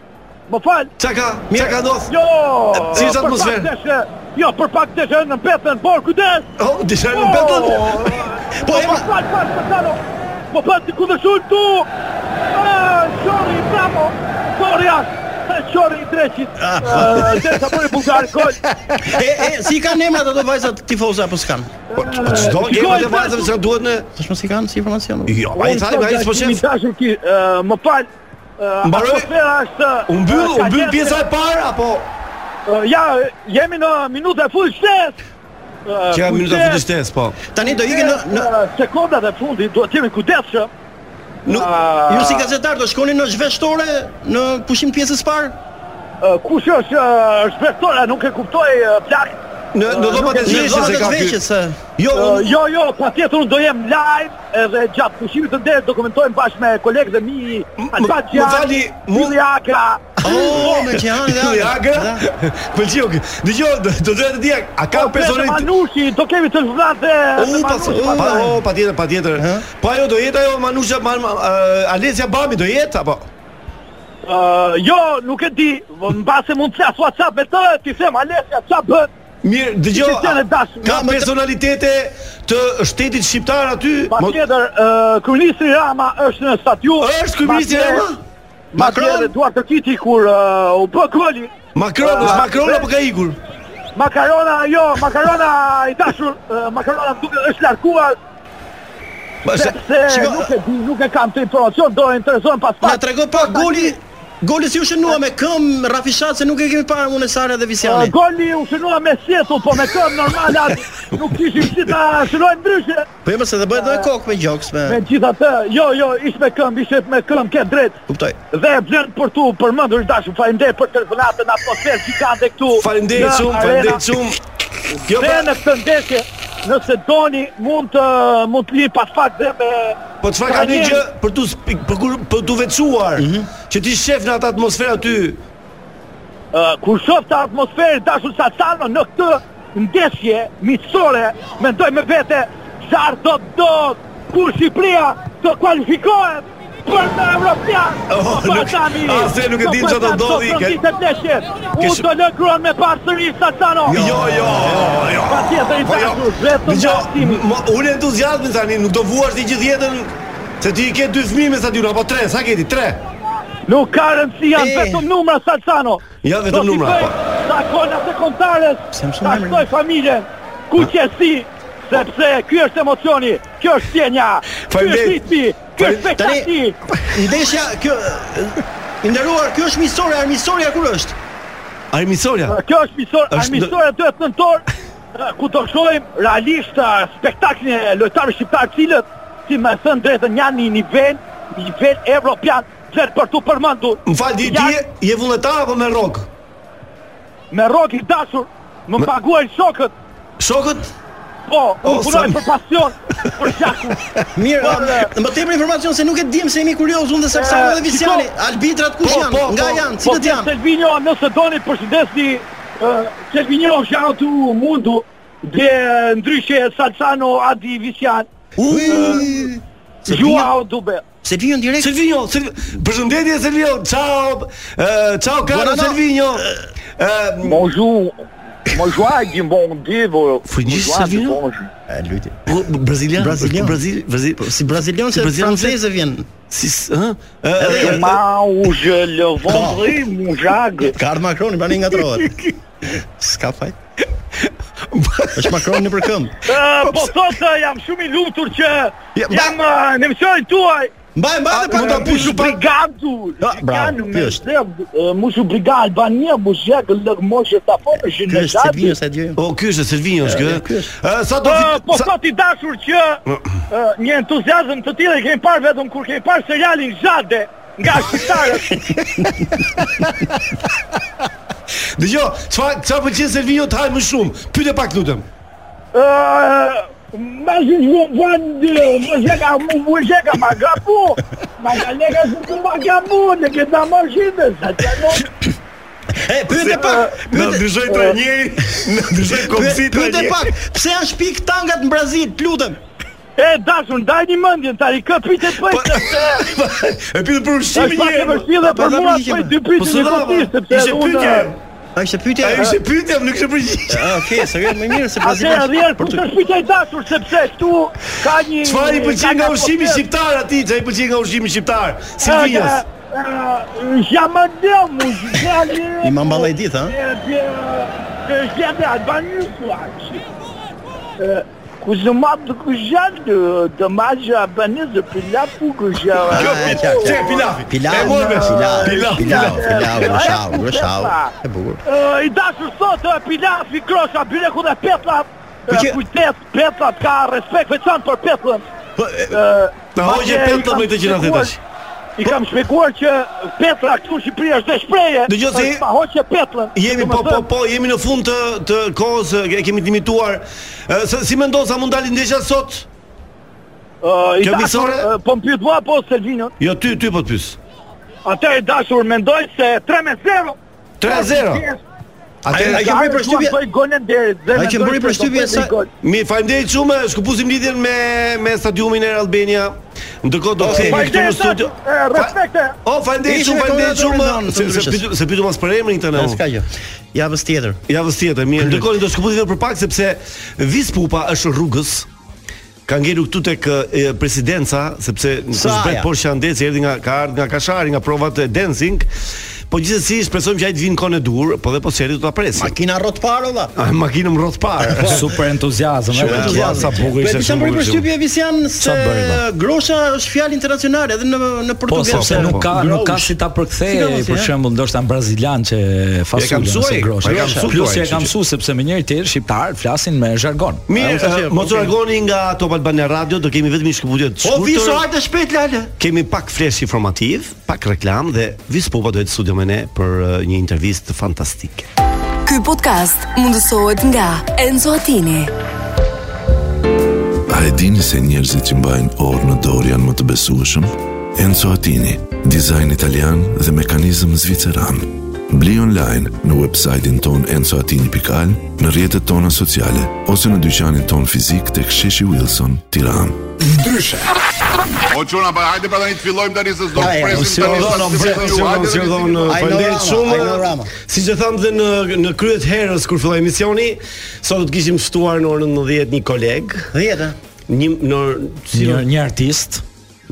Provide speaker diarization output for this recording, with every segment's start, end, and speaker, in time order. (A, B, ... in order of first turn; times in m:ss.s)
0:00.5-0:00.9 A
0:01.0-0:02.1 B
0:01.5-0:01.8 C
0:02.1-0:06.5 A
0:02.7-0:03.7 B
0:06.6-0:08.3 B
0:07.1-0:11.9 A
0:08.6-0:09.1 C
0:12.5-0:18.6 A
0:16.6-0:17.6 C
0:19.0-0:21.7 C
0:21.9-0:23.5 A
0:21.9-0:24.1 B
0:24.2-0:25.4 C
0:25.3-0:26.6 B
0:25.5-0:28.1 A
0:28.6-0:31.2 A
0:28.8-0:29.3 B
0:30.1-0:32.1 B
0:32.7-0:35.2 A
0:35.9-0:36.8 A
0:36.1-0:37.4 B
0:37.5-0:38.5 C
0:37.6-0:40.7 A
0:41.4-0:41.7 B
0:41.5-0:42.5 A
0:42.1-0:45.6 C
0:46.2-0:49.4 A
0:49.7-0:51.4 B
0:49.9-0:51.0 A
0:50.4-0:51.8 C
0:52.0-0:52.6 B
0:52.1-1:00.8 A
0:57.8-0:59.4 B
1:00.2-1:05.7 B
1:00.2-1:02.3 C
1:04.9-1:08.5 A
1:07.4-1:13.3 B
1:07.9-1:08.6 C
1:09.4-1:09.6 C
1:14.2-1:19.1 A
1:19.4-1:24.4 B
1:19.9-1:20.9 A
1:20.8-1:21.3 C
1:24.1-1:28.0 A
1:27.0-1:28.2 B
1:28.7-1:32.8 A
1:28.8-1:29.3 C
1:31.7-1:33.4 B
1:34.0-1:38.1 A
1:39.4-1:39.8 B
1:39.5-1:44.0 A
1:40.1-1:40.5 C
1:42.8-1:48.1 C
1:47.8-1:53.0 A
1:53.2-1:55.0 C
1:53.7-1:54.1 A
1:54.8-1:58.0 A
1:58.1-1:58.4 C
1:58.5-2:04.0 A
2:02.7-2:04.4 B
2:05.0-2:11.0 A
2:05.0-2:05.5 B
2:10.2-2:15.4 B
2:13.2-2:13.5 C
2:16.5-2:34.0 A
2:28.1-2:30.8 B
2:31.8-2:32.0 B
2:33.9-2:43.0 B
2:33.9-2:34.9 C
2:35.2-2:37.4 A
2:43.6-2:56.8 A
2:44.5-2:45.0 C
2:46.2-2:47.2 B
2:48.9-2:49.6 C
2:54.6-2:55.2 B
2:55.8-2:56.5 C
2:57.0-3:01.2 C
3:01.9-3:02.6 B
3:02.5-3:04.6 A
3:03.3-3:03.7 B
3:05.1-3:14.8 A
3:14.0-3:16.3 B
3:17.5-3:19.9 A
3:20.4-3:20.9 B
3:21.5-3:24.0 A
3:21.8-3:22.4 B
3:24.3-3:30.5 C
3:24.6-3:25.1 A
3:27.3-3:28.3 A
3:29.0-3:29.9 B
3:29.9-3:38.3 A
3:38.6-3:40.5 C
3:38.8-3:39.4 A
3:40.0-3:41.0 A
3:41.2-3:41.9 C
3:41.8-3:47.6 B
3:45.5-3:46.6 C
3:47.4-3:51.7 A
3:50.4-3:51.4 B
3:51.9-3:52.4 C
3:52.4-3:54.6 B
3:53.2-3:53.8 C
3:54.4-3:56.2 C
3:55.1-3:55.8 B
3:56.5-3:58.2 B
3:57.6-3:58.0 C
3:57.6-4:00.9 A
3:59.5-3:59.8 C
4:00.9-4:02.3 C
4:02.8-4:03.7 C
4:04.9-4:05.8 B
4:05.3-4:06.4 C
4:06.4-4:10.9 A
4:06.8-4:07.1 B
4:09.2-4:09.5 B
4:11.2-4:12.3 C
4:11.5-4:12.6 B
4:11.7-4:19.0 A
4:13.4-4:14.4 C
4:18.3-4:19.4 C
4:19.4-4:22.1 B
4:20.2-4:20.9 C
4:21.4-4:28.8 A
4:28.8-4:30.1 C
4:32.0-4:35.2 B
4:35.9-4:45.3 A
4:46.1-4:47.6 C
4:46.5-4:50.5 B
4:46.7-4:47.2 A
4:47.9-4:48.2 A
4:49.4-4:52.8 C
4:53.4-4:56.4 A
4:55.6-4:58.4 B
4:57.7-5:01.5 A
4:58.6-4:59.5 C
4:59.8-5:01.6 B
5:02.0-5:02.8 C
5:02.4-5:04.6 B
5:03.9-5:06.2 C
5:05.2-5:10.0 A
5:08.6-5:12.8 B
5:12.2-5:20.2 A
5:16.0-5:17.0 C
5:21.2-5:31.3 A
5:26.3-5:31.8 C
5:26.3-5:30.3 B
5:31.8-5:38.6 A
5:35.7-5:36.0 C
5:39.0-5:39.4 C
5:39.3-5:41.5 A
5:39.9-5:41.6 B
5:42.2-5:47.4 A
5:45.3-5:45.9 B
5:46.7-5:52.9 B
5:54.0-5:56.5 A
5:54.4-5:55.1 B
5:56.6-5:57.6 B
5:58.2-6:01.8 A
6:01.0-6:01.6 B
6:02.4-6:02.8 B
6:02.5-6:03.6 C
6:02.5-6:05.9 A
6:04.5-6:05.7 C
6:06.0-6:16.4 B
6:10.6-6:11.1 C
6:10.7-6:12.8 A
6:13.2-6:15.0 C
6:16.1-6:17.8 C
6:17.9-6:22.1 B
6:22.8-6:29.1 B
6:25.5-6:26.1 C
6:29.7-6:32.7 B
6:32.5-6:33.7 C
6:33.8-6:35.3 B
6:35.0-6:37.1 D
6:36.1-6:38.0 B
6:36.2-6:43.3 C
6:38.8-6:39.4 D
6:41.9-6:50.8 D
6:42.1-6:42.7 B
6:43.8-6:44.5 C
6:46.3-6:48.3 B
6:47.2-6:47.7 C
6:50.9-6:55.1 B
6:50.9-6:51.9 C
6:54.4-6:55.9 C
6:56.0-7:01.9 B
7:02.4-7:05.5 E
7:07.5-7:23.5 F
7:23.6-7:24.4 G
7:25.1-7:29.5 G
7:26.9-7:27.6 C
7:27.0-7:29.0 D
7:27.6-7:36.9 B
7:29.4-7:30.9 C
7:36.9-7:37.4 C
7:37.7-7:39.1 B
7:38.7-7:39.8 D